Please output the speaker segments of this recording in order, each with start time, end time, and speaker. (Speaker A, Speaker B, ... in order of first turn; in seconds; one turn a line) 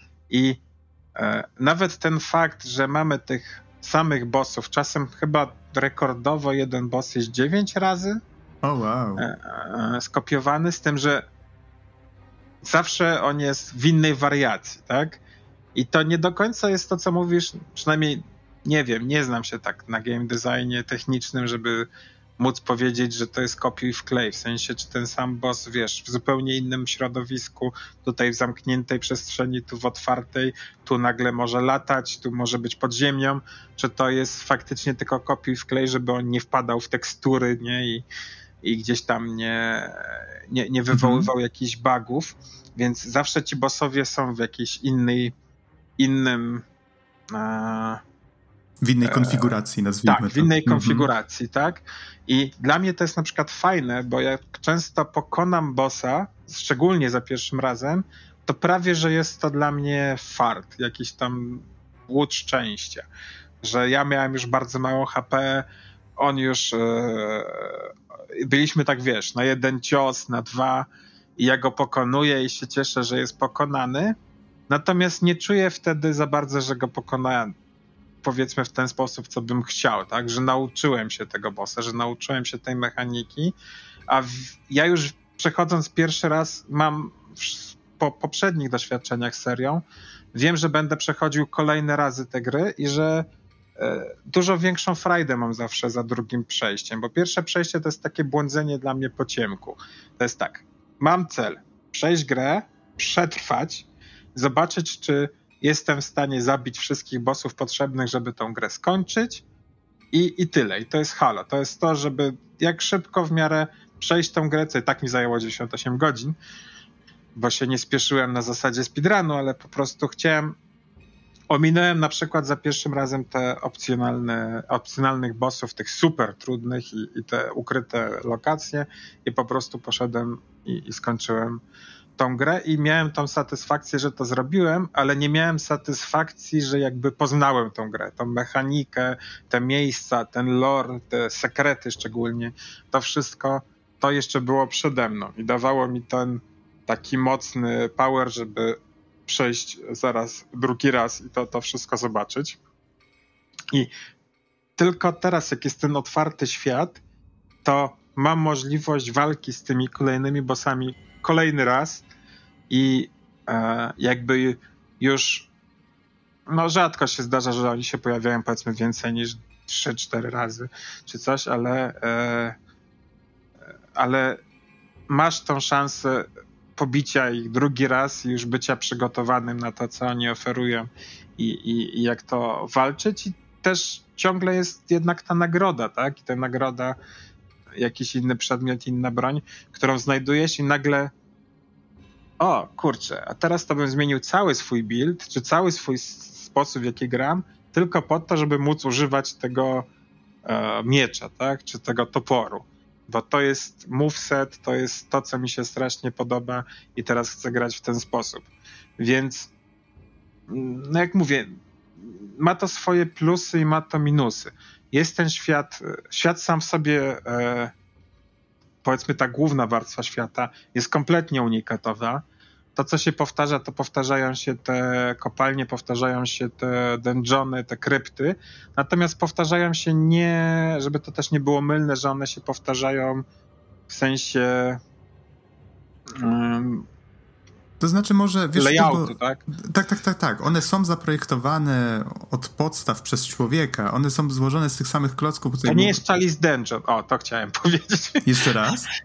Speaker A: 0.3-0.6
Speaker A: 1.2-8.2
Speaker B: 8.6-9.3
Speaker A: 9.2-11.2
Speaker A: 12.6-15.2
Speaker A: 15.8-21.9
Speaker A: 22.4-38.0
Speaker A: 38.6-45.3
Speaker B: 40.9-41.3
Speaker A: 46.0-46.6
Speaker A: 47.3-48.0
Speaker B: 48.8-51.1
Speaker A: 49.0-49.6
Speaker A: 50.1-63.1
Speaker A: 63.6-65.7
Speaker A: 66.2-74.2
Speaker A: 74.7-77.5
Speaker A: 78.2-83.5
Speaker A: 84.1-109.4
Speaker A: 110.1-116.3
Speaker A: 117.4-120.6
Speaker A: 121.5-131.6
Speaker A: 132.2-152.6
Speaker A: 154.8-157.0
Speaker A: 157.6-162.0
Speaker A: 162.7-165.5
Speaker A: 166.5-172.6
Speaker A: 173.9-174.4
Speaker A: 175.1-186.9
Speaker A: 187.8-191.1
Speaker A: 192.4-199.9
Speaker A: 200.4-209.5
Speaker A: 210.5-217.7
Speaker A: 218.8-222.2
Speaker A: 222.8-233.2
Speaker A: 233.9-234.8
Speaker A: 236.2-236.9
Speaker B: 237.8-246.0
Speaker A: 238.6-239.4
Speaker A: 245.6-248.5
Speaker B: 248.2-248.9